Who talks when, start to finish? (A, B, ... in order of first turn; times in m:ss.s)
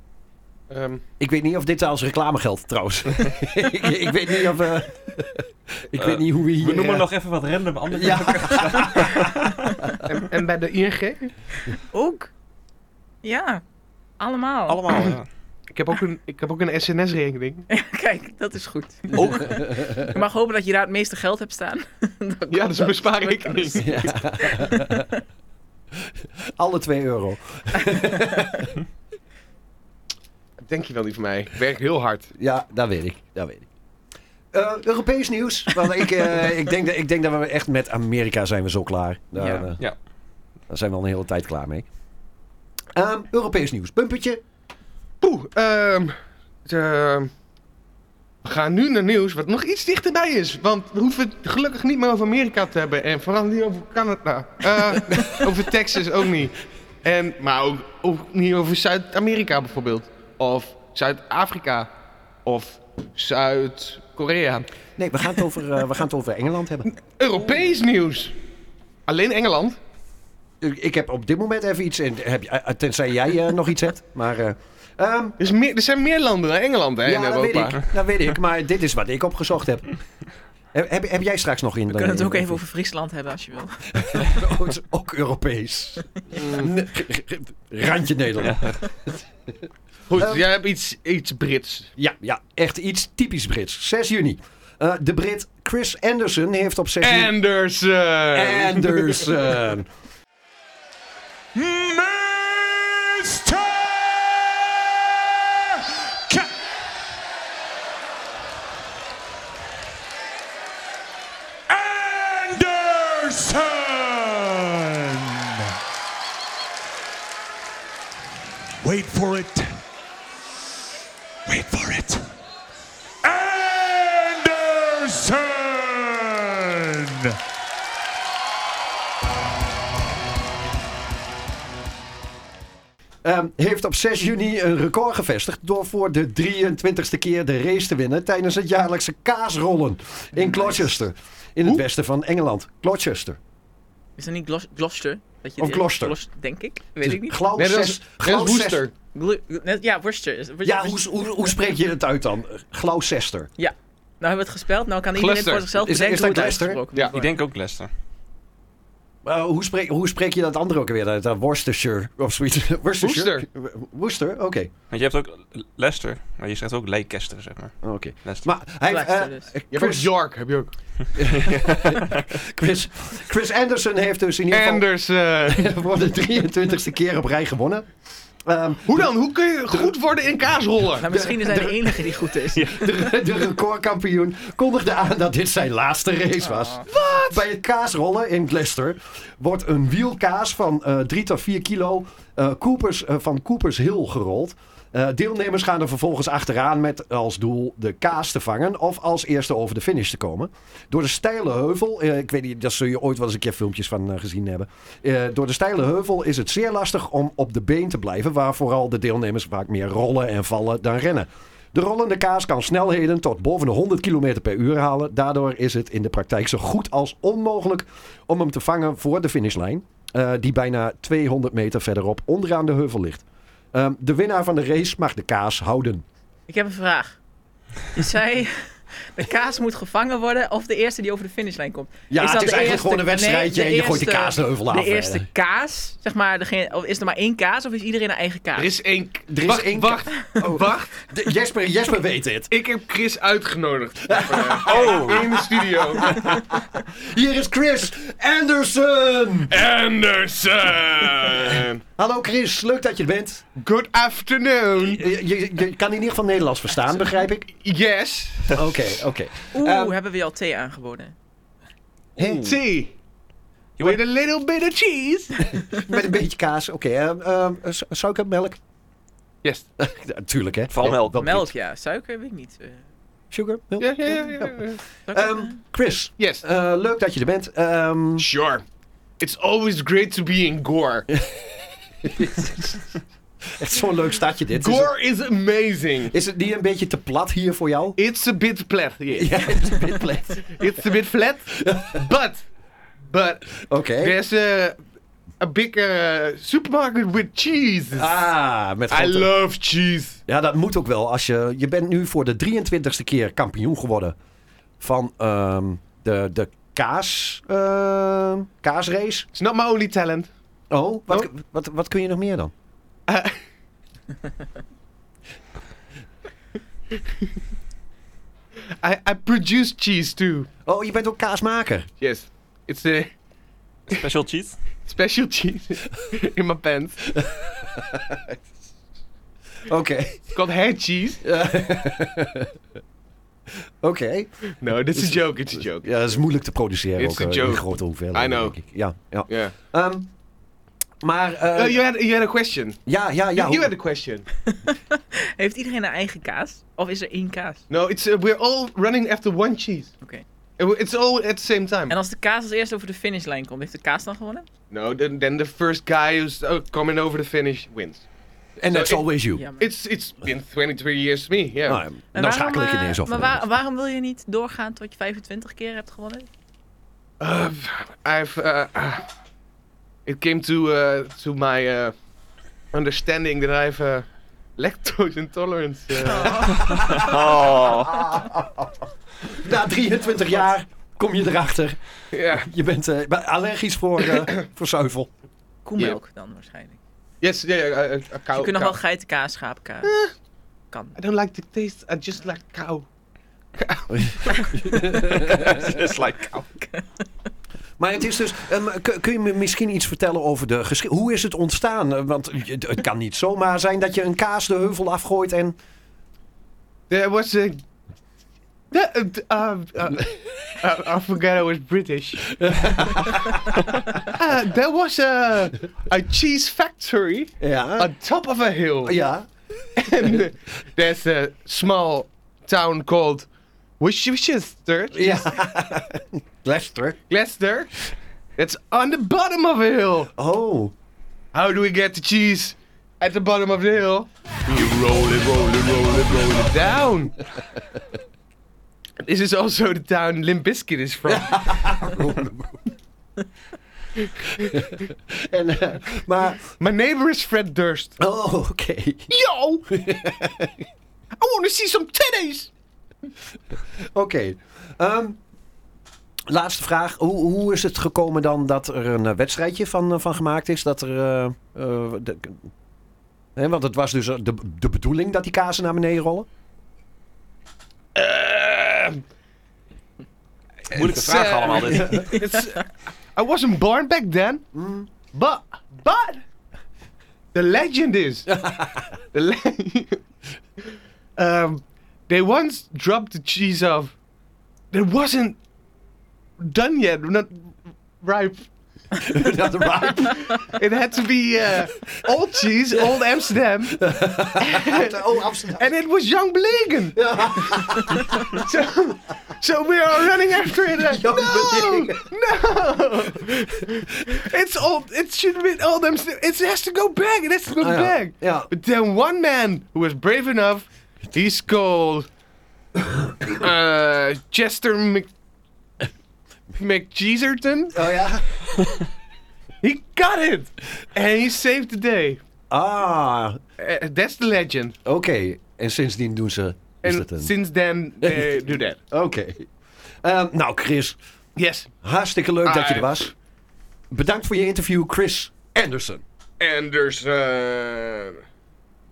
0:00.7-0:01.0 A
0:01.2-0:07.1 B
0:06.0-0:09.5 C
0:07.9-0:09.6 B
0:10.0-0:11.3 A
0:11.7-0:12.3 D
0:13.2-0:13.6 D
0:14.2-0:14.8 D
0:14.7-0:15.3 C
0:15.7-0:17.7 A
0:17.7-0:25.2 D
0:19.2-0:19.5 C
0:19.3-0:20.1 B
0:22.5-0:24.0 A
0:23.8-0:25.1 B
0:26.6-0:28.7 B
0:30.7-0:32.3 A
0:32.4-0:33.7 B
0:34.5-0:39.8 B
0:39.4-0:39.7 D
0:40.7-0:41.9 B
0:43.0-0:44.4 B
0:45.2-0:47.3 A
0:48.4-1:01.9 A
1:02.4-1:04.7 A
1:05.0-1:06.9 B
1:06.9-1:08.4 A
1:09.1-1:09.8 A
1:10.6-1:15.4 B
1:15.4-1:17.9 A
1:17.0-1:19.9 B
1:20.7-1:22.6 B
1:21.9-1:24.2 D
1:24.0-1:29.1 B
1:26.4-1:26.7 A
1:28.4-1:28.8 C
1:30.1-1:31.9 A
1:30.1-1:30.4 B
1:32.0-1:37.4 B
1:37.0-1:39.3 A
1:38.3-1:39.9 B
1:41.6-1:46.7 E
1:51.7-1:55.7 E
1:58.8-1:59.8 E
2:01.5-2:02.3 E
2:03.2-2:07.4 E
2:13.2-2:23.4 B
2:20.4-2:20.8 D
2:24.2-2:27.4 D
2:25.6-2:26.2 B
2:27.0-2:28.8 B
2:27.6-2:28.9 A
2:29.1-2:31.5 D
2:30.6-2:33.5 B
2:33.6-2:37.3 D
2:35.2-2:35.7 A
2:35.8-2:36.8 B
2:37.1-2:37.9 C
2:39.2-2:44.7 B
2:43.0-2:43.5 A
2:44.9-2:48.5 C
2:47.8-2:50.1 B
2:48.9-2:49.5 D
2:49.7-2:50.7 A
2:51.2-2:54.9 B
2:51.3-2:52.2 C
2:54.5-2:55.7 A
2:55.4-2:57.9 B
2:58.4-2:59.1 B
2:58.9-3:01.1 A
3:01.0-3:03.1 D
3:01.0-3:46.0 B
3:02.6-3:02.8 C
3:06.4-3:06.9 D
3:06.9-3:07.4 A
3:46.5-3:47.2 D
3:47.9-3:58.7 D
3:52.1-3:55.3 B
3:58.6-4:00.9 A
3:59.3-4:02.5 B
4:02.5-4:06.4 A
4:04.1-4:09.6 B
4:04.7-4:05.3 C
4:09.5-4:11.8 A
4:12.0-4:13.5 B
4:13.6-4:15.0 A
4:14.8-4:17.5 B
4:17.5-4:18.6 A
4:18.5-4:20.0 B
4:19.5-4:21.2 D
4:22.2-4:22.6 B
4:22.2-4:23.0 A
4:23.8-4:25.6 A
4:25.7-4:28.6 B
4:29.8-4:31.5 B
4:30.7-4:31.2 C
4:31.2-4:32.8 D
4:33.3-4:34.6 B
4:33.8-4:34.8 A
4:35.1-4:35.6 D
4:35.1-4:38.3 B
4:36.2-4:36.4 A
4:38.2-4:38.6 A
4:39.2-4:41.1 A
4:41.1-4:42.8 B
4:43.5-4:44.9 B
4:44.6-4:46.2 A
4:46.1-4:48.0 B
4:48.0-4:49.5 A
4:49.1-4:50.6 B
4:50.5-4:52.4 A
4:51.5-4:52.1 B
4:53.1-4:54.8 A
4:53.7-4:54.2 B
4:55.4-4:58.2 A
4:57.9-4:59.3 B
4:58.9-5:00.2 A
5:00.3-5:04.2 B
5:04.8-5:09.3 B
5:09.4-5:10.3 A
5:10.7-5:12.5 B
5:13.1-5:13.4 A
5:18.8-5:20.5 A
5:20.6-5:21.9 B
5:22.0-5:23.1 A
5:23.9-5:24.6 C
5:24.9-5:27.0 A
5:27.2-5:28.2 B
5:29.7-5:30.3 B
5:30.3-5:31.2 A
5:31.2-5:32.5 B
5:33.8-5:40.1 B
5:34.6-5:35.9 A
5:37.0-5:38.6 A
5:39.3-5:39.5 A
5:41.0-5:41.8 B
5:41.5-5:42.8 A
5:42.9-5:43.7 B
5:43.4-5:44.3 A
5:44.5-5:47.6 D
5:47.7-5:49.9 A
5:50.6-5:52.0 A
5:51.9-5:54.5 D
5:54.7-5:58.1 A
5:58.6-5:59.4 B
5:58.7-5:59.1 A
5:59.4-5:59.7 D
5:59.6-6:01.8 A
6:01.6-6:03.4 B
6:02.1-6:06.3 D
6:07.2-6:09.0 A
6:10.1-6:12.0 A
6:12.7-6:16.5 A
6:16.0-6:17.1 D
6:16.3-6:21.8 B
6:16.7-6:18.1 C
6:22.1-6:22.5 A
6:22.3-6:25.1 B
6:25.6-6:26.8 D
6:27.2-6:28.8 A
6:28.4-6:29.9 D
6:29.8-6:30.1 A
6:30.7-6:31.0 D
6:31.0-6:32.9 A
6:33.6-6:34.5 A
6:33.9-6:35.6 B
6:35.1-6:36.5 C
6:36.6-6:36.9 D
6:37.8-6:45.6 B
6:46.9-6:47.6 A
6:48.7-6:52.3 A
6:52.3-6:53.6 B
6:53.9-6:59.0 A
6:57.4-6:57.9 B
6:58.8-6:59.3 B
6:59.8-7:03.3 A
7:03.8-7:05.3 A
7:04.9-7:07.0 B
7:07.1-7:07.7 A
7:08.4-7:10.1 A
7:10.2-7:10.7 B
7:11.3-7:17.2 A
7:19.0-7:21.9 A
7:21.1-7:22.6 B
7:24.4-7:26.4 B
7:26.6-7:28.0 A
7:28.0-7:29.1 B
7:29.1-7:29.7 A
7:29.7-7:30.6 B
7:31.2-7:32.5 A
7:33.8-7:35.2 B
7:36.3-7:42.5 B
7:43.4-7:46.3 B
7:48.0-7:49.0 A
7:50.7-7:54.5 A
7:50.7-7:52.2 C
7:51.5-7:52.1 B
7:54.5-7:54.9 B
7:55.1-7:56.2 A
7:57.3-7:58.4 A
7:58.3-7:58.9 B
7:59.1-8:00.0 A
8:00.6-8:04.0 A
8:04.7-8:05.4 A
8:06.4-8:08.5 A
8:09.0-8:10.3 B
8:09.9-8:15.0 A
8:12.7-8:13.0 B
8:13.7-8:15.7 B
8:15.6-8:32.1 A
8:17.0-8:18.2 B
8:20.9-8:22.1 B
8:27.6-8:28.5 B
8:33.3-8:35.1 A
8:36.6-8:37.8 A
8:37.7-8:38.3 B
8:39.6-8:42.2 A
8:42.5-8:43.4 B
8:43.6-8:44.8 A
8:44.8-8:47.3 B
8:46.8-8:48.8 A
8:48.0-8:49.5 B
8:50.0-8:51.0 B
8:51.4-8:51.7 A
8:51.8-8:53.1 B
8:52.4-8:53.0 A
8:53.9-8:56.0 B
8:56.4-8:58.2 A